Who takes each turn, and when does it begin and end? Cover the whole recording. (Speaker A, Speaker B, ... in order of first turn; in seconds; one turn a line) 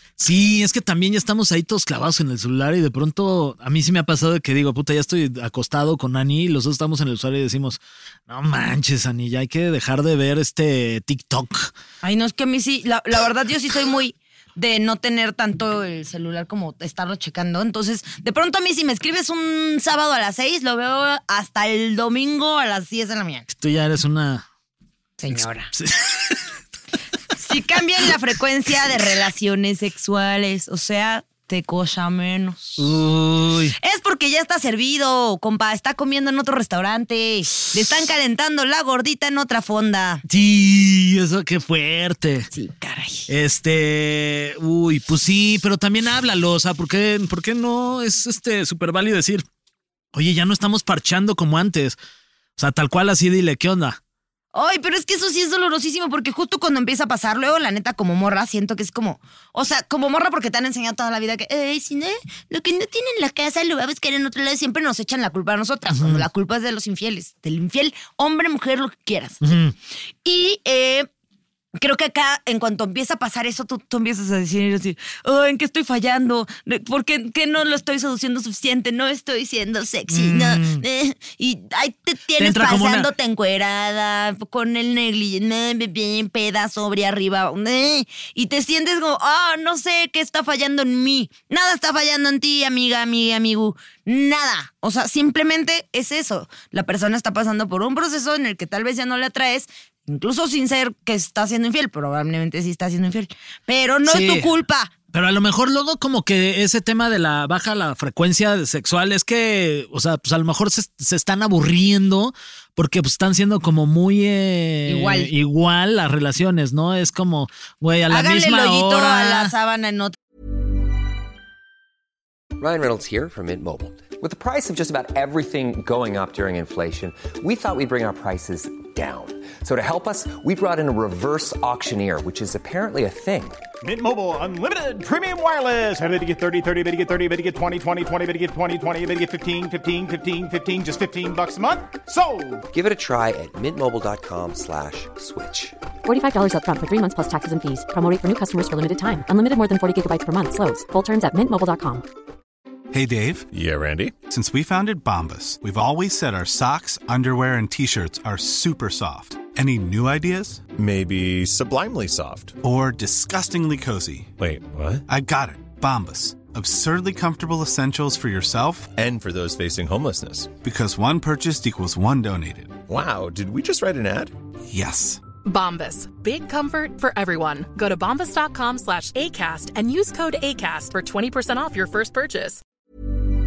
Speaker A: 0.2-11.7
Speaker B: 12.0-23.5
Speaker A: 23.5-24.5
Speaker B: 25.2-25.7
Speaker A: 25.3-26.4
Speaker B: 27.4-32.9
Speaker A: 32.8-33.8
Speaker B: 33.8-40.2
Speaker A: 40.3-42.5
Speaker B: 42.5-43.3
Speaker A: 43.3-49.5
Speaker A: 50.1-52.0
Speaker A: 52.6-54.0
Speaker B: 54.5-69.4
Speaker A: 65.9-66.2
Speaker A: 69.4-69.8
Speaker B: 70.2-71.1
Speaker B: 71.8-104.9
Speaker A: 80.1-80.8
Speaker A: 82.4-83.1
Speaker A: 104.1-104.5
Speaker A: 105.1-119.5
Speaker B: 114.9-115.3
Speaker B: 118.1-120.2
Speaker C: 122.6-133.6
Speaker D: 133.9-142.6
Speaker C: 142.7-145.8
Speaker E: 146.1-152.0
Speaker F: 152.9-153.5
Speaker G: 153.5-154.1
Speaker F: 154.3-160.7
Speaker G: 160.8-162.5
Speaker F: 162.6-164.3
Speaker G: 164.4-165.0
Speaker F: 165.1-168.9
Speaker G: 169.0-170.5
Speaker F: 170.6-172.8
Speaker G: 172.9-174.3
Speaker F: 174.7-175.2
Speaker H: 175.4-182.6